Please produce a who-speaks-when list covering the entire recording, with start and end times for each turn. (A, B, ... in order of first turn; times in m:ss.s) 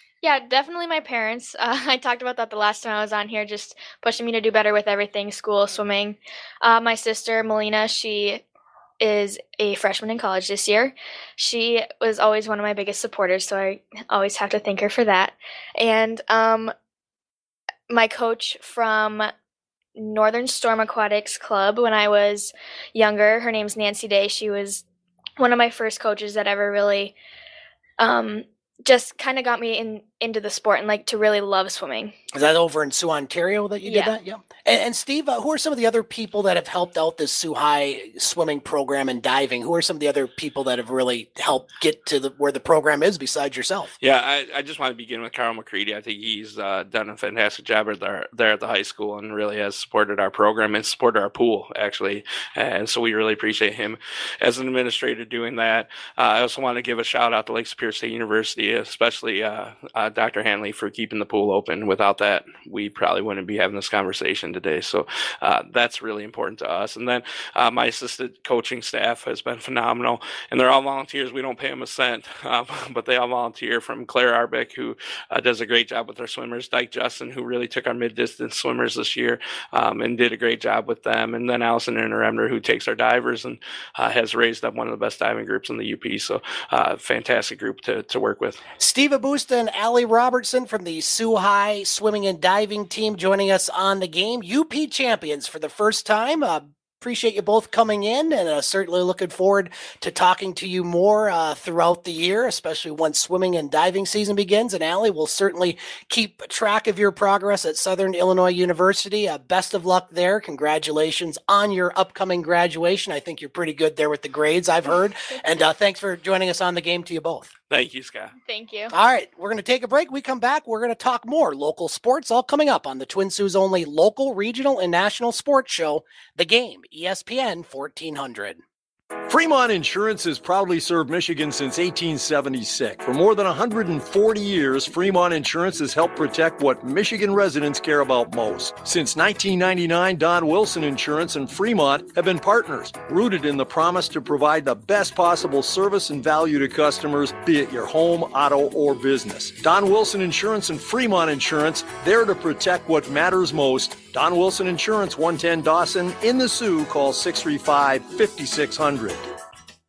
0:00.2-0:08.4 A
0:09.0-0:16.7 A
0:17.9-0:19.3 A
0:20.0-0:24.8 A
0:25.4-0:27.1 A
0:28.0-0:32.1 A
0:32.3-0:43.9 B
0:33.8-0:34.1 A
0:44.0-1:28.6 C
1:28.8-1:57.5 B
1:57.7-1:58.3 C
1:58.4-1:58.9 A
1:58.9-2:08.6 B
2:09.3-2:39.2 D